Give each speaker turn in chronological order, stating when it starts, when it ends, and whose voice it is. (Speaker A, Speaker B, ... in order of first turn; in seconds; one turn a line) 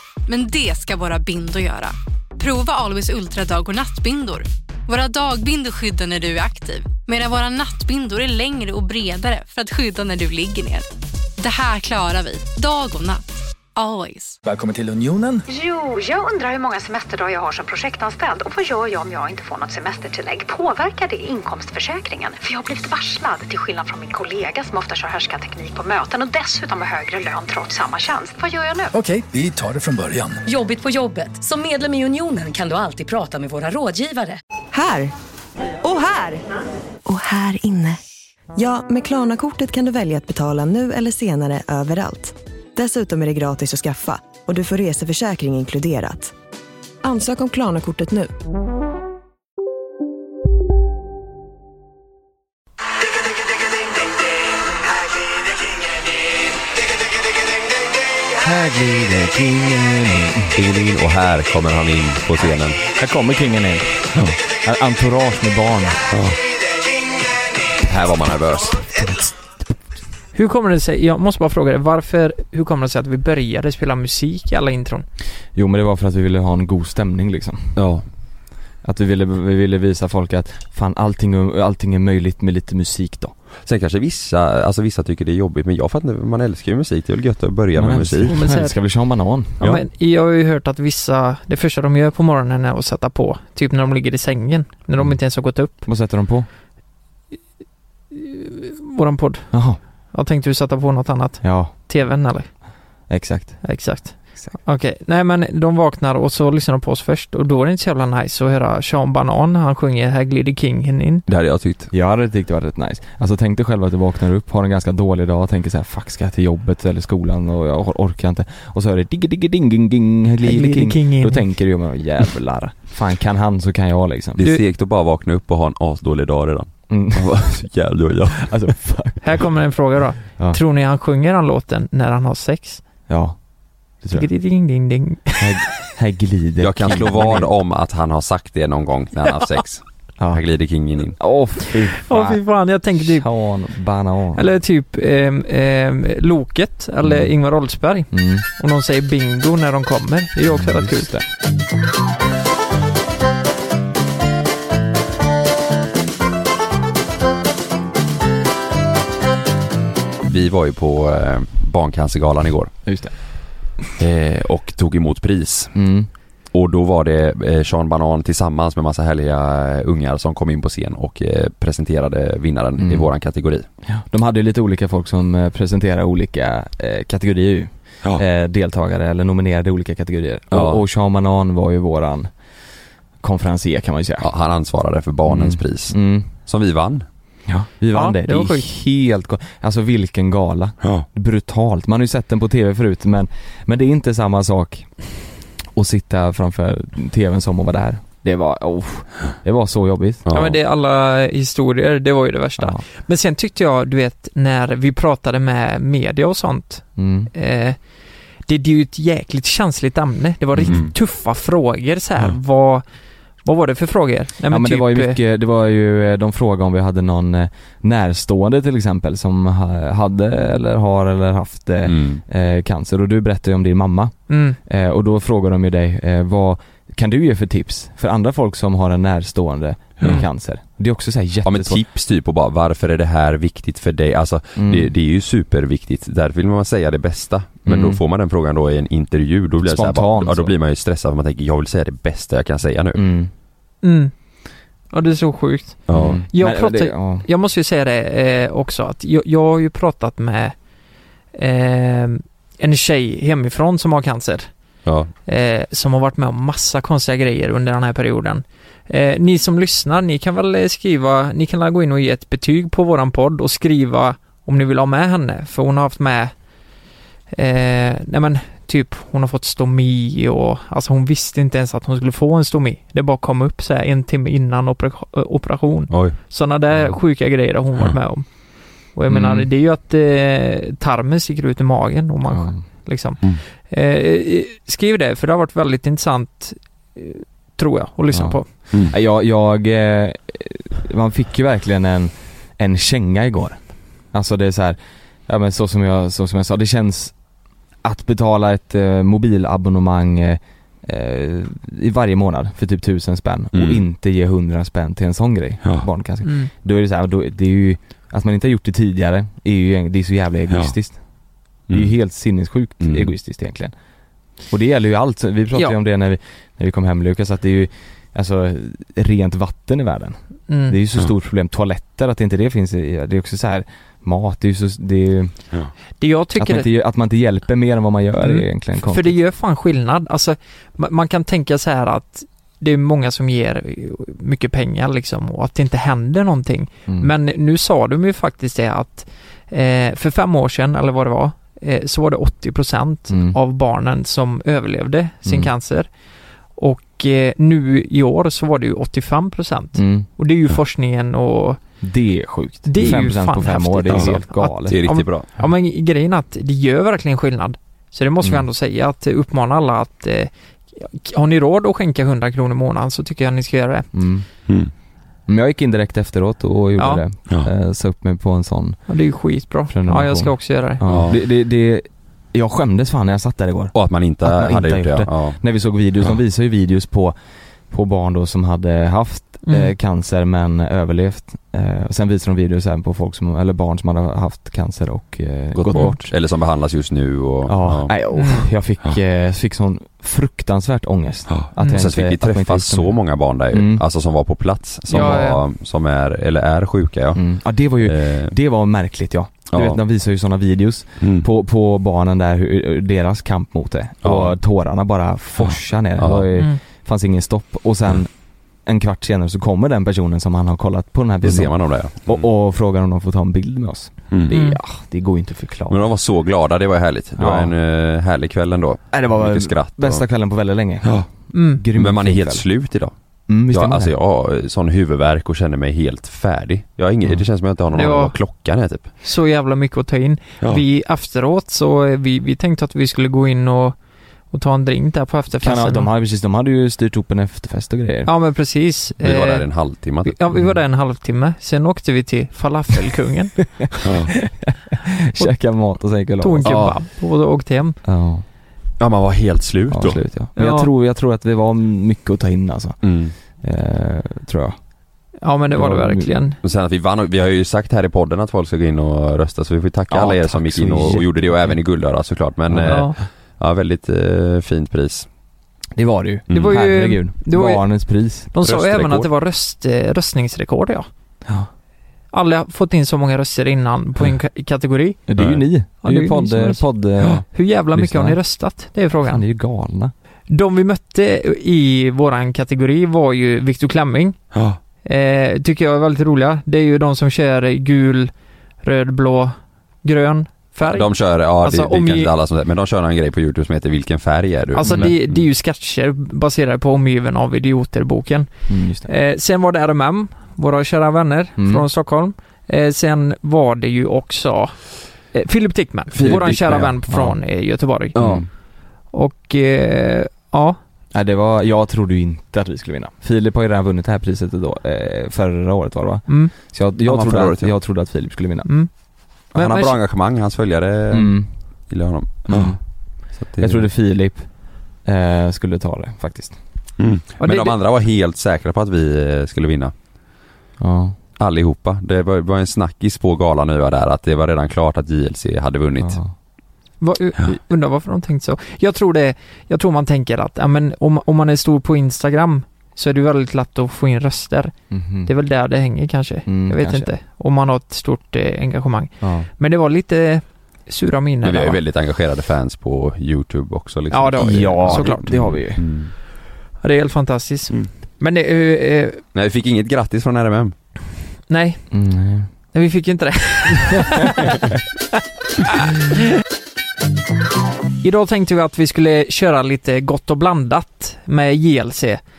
Speaker A: 0.3-10.9
Speaker A: 11.4-13.2
Speaker A: 13.8-14.4
Speaker B: 14.4-15.4
Speaker C: 15.5-28.9
Speaker B: 28.9-30.4
Speaker D: 30.4-34.4
Speaker E: 34.7-35.1
Speaker E: 35.8-36.4
Speaker E: 37.0-38.0
Speaker E: 38.5-46.3
Speaker E: 47.0-48.3
Speaker F: 58.4-60.6
Speaker G: 60.5-62.8
Speaker F: 63.0-66.0
Speaker G: 66.1-66.4
Speaker G: 67.9-68.9
Speaker H: 70.3-75.0
Speaker F: 75.5-77.8
Speaker G: 77.8-78.0
Speaker F: 78.8-83.3
Speaker G: 83.7-88.4
Speaker F: 87.8-89.6
Speaker H: 88.3-88.7
Speaker H: 89.6-95.8
Speaker F: 95.7-96.5
Speaker H: 98.1-99.5
Speaker F: 99.5-99.8
Speaker H: 100.1-102.5
Speaker F: 101.4-101.7
Speaker F: 103.1-103.6
Speaker H: 103.6-111.2
Speaker G: 111.3-111.9
Speaker F: 111.9-124.4
Speaker H: 120.4-121.5
Speaker G: 124.4-128.7
Speaker F: 126.9-127.6
Speaker F: 128.3-129.2
Speaker H: 129.2-132.8
Speaker F: 133.1-133.4
Speaker F: 134.0-134.3
Speaker H: 134.1-135.5
Speaker F: 135.4-137.5
Speaker G: 136.6-141.2
Speaker F: 140.2-140.4
Speaker F: 141.2-142.4
Speaker H: 142.0-143.2
Speaker F: 143.0-144.5
Speaker H: 144.3-151.1
Speaker F: 147.0-147.3
Speaker F: 148.1-148.4
Speaker F: 150.5-151.2
Speaker G: 160.3-162.7
Speaker F: 162.8-163.1
Speaker G: 164.0-165.8
Speaker F: 165.7-166.1
Speaker G: 166.5-173.7
Speaker F: 172.8-173.1
Speaker F: 173.8-182.3
Speaker G: 180.5-180.8
Speaker F: 183.2-184.3
Speaker G: 184.2-187.1
Speaker F: 185.3-186.3
Speaker F: 187.5-194.9
Speaker H: 187.9-188.7
Speaker F: 195.7-200.2
Speaker G: 200.2-200.6
Speaker H: 200.3-207.8
Speaker F: 202.6-202.8
Speaker F: 207.0-207.3
Speaker H: 208.5-212.8
Speaker F: 210.6-210.8
Speaker G: 210.6-210.9
Speaker H: 213.4-215.2
Speaker F: 214.5-231.8
Speaker G: 221.8-222.2
Speaker H: 224.3-224.6
Speaker G: 231.4-243.0
Speaker F: 234.6-234.9
Speaker F: 237.7-238.0
Speaker F: 239.6-240.5
Speaker F: 242.9-243.3
Speaker H: 243.8-244.1
Speaker H: 244.9-250.5
Speaker G: 245.9-246.2
Speaker F: 245.9-247.2
Speaker H: 251.3-254.5
Speaker G: 254.8-255.1
Speaker H: 255.2-266.3
Speaker H: 267.3-278.3
Speaker G: 275.9-276.1
Speaker H: 278.9-288.5
Speaker F: 279.1-279.5
Speaker F: 282.3-282.6
Speaker F: 288.1-297.1
Speaker F: 297.8-311.0
Speaker G: 303.5-303.8
Speaker H: 306.2-306.5
Speaker F: 311.7-313.7
Speaker G: 312.8-313.1
Speaker F: 314.5-325.4
Speaker H: 320.5-320.8
Speaker H: 326.0-326.7
Speaker F: 326.4-329.2
Speaker H: 328.2-345.9
Speaker F: 343.1-343.4
Speaker F: 345.2-345.5
Speaker H: 346.6-351.6
Speaker F: 349.8-350.1
Speaker F: 351.8-354.8
Speaker H: 352.7-363.9
Speaker G: 354.7-355.3
Speaker F: 363.9-364.3
Speaker F: 365.3-368.8
Speaker H: 366.8-367.0
Speaker H: 368.9-370.8
Speaker F: 369.7-377.1
Speaker G: 370.9-371.2
Speaker G: 373.7-375.4
Speaker F: 377.7-386.1
Speaker H: 379.4-379.7
Speaker G: 385.5-387.9
Speaker F: 387.4-393.0
Speaker H: 388.1-388.5
Speaker G: 391.3-397.3
Speaker F: 393.5-393.8
Speaker H: 394.9-395.4
Speaker F: 397.1-408.1
Speaker G: 397.8-398.3
Speaker G: 399.5-399.8
Speaker G: 404.0-404.4
Speaker G: 405.4-406.2
Speaker F: 408.6-415.8
Speaker G: 411.2-412.3
Speaker H: 414.3-414.6
Speaker G: 415.7-420.0
Speaker F: 417.2-417.5
Speaker F: 418.9-422.4
Speaker H: 421.3-421.6
Speaker G: 421.7-422.9
Speaker F: 423.3-423.9
Speaker G: 423.5-428.9
Speaker H: 427.7-428.1
Speaker H: 429.0-433.8
Speaker H: 434.3-435.9
Speaker F: 435.4-438.1
Speaker H: 438.1-439.5
Speaker G: 439.0-440.1
Speaker H: 440.1-443.4
Speaker F: 443.7-446.6
Speaker G: 443.8-444.1
Speaker H: 446.2-447.8
Speaker G: 446.4-446.7
Speaker F: 447.8-448.2
Speaker G: 448.8-450.0
Speaker F: 449.7-454.6
Speaker H: 450.4-450.7
Speaker G: 452.8-453.1
Speaker H: 455.2-456.4
Speaker F: 455.5-456.1
Speaker G: 456.4-465.1
Speaker F: 459.9-461.6
Speaker F: 462.5-462.9
Speaker H: 462.6-463.0
Speaker F: 465.7-468.3
Speaker H: 466.3-467.6
Speaker H: 468.3-470.9
Speaker G: 468.4-469.1
Speaker H: 472.1-475.0
Speaker F: 475.1-478.2
Speaker G: 475.2-475.4
Speaker H: 475.8-476.6
Speaker H: 477.3-479.2
Speaker F: 479.1-479.9
Speaker H: 480.3-484.2
Speaker G: 484.3-484.6
Speaker H: 484.8-488.1
Speaker H: 488.6-490.9
Speaker G: 490.6-495.2
Speaker H: 491.4-492.1
Speaker H: 494.5-498.3
Speaker F: 494.6-494.9
Speaker F: 498.5-498.9
Speaker H: 498.8-504.6
Speaker F: 501.4-501.6
Speaker H: 505.1-508.0
Speaker G: 505.9-506.8
Speaker F: 506.0-507.2
Speaker F: 507.9-508.2
Speaker G: 507.9-508.3
Speaker H: 508.9-510.6
Speaker F: 510.9-518.6
Speaker H: 516.1-516.3
Speaker G: 516.8-517.5
Speaker F: 519.3-519.7
Speaker H: 519.3-519.7
Speaker G: 519.4-522.6
Speaker F: 520.9-521.3
Speaker F: 522.3-522.6
Speaker G: 523.2-523.7
Speaker F: 523.4-524.3
Speaker F: 524.8-526.4
Speaker G: 526.8-529.7
Speaker H: 527.2-527.5
Speaker F: 530.6-531.0
Speaker G: 531.2-536.0
Speaker F: 535.8-536.1
Speaker H: 536.8-544.5
Speaker F: 544.7-545.1
Speaker H: 545.0-551.6
Speaker F: 546.3-546.9
Speaker F: 549.0-549.3
Speaker G: 551.2-555.9
Speaker H: 553.9-555.1
Speaker F: 554.1-555.6
Speaker H: 556.6-559.0
Speaker G: 559.1-560.5
Speaker H: 561.3-561.6
Speaker F: 561.7-562.3
Speaker H: 562.5-564.4
Speaker H: 567.8-572.0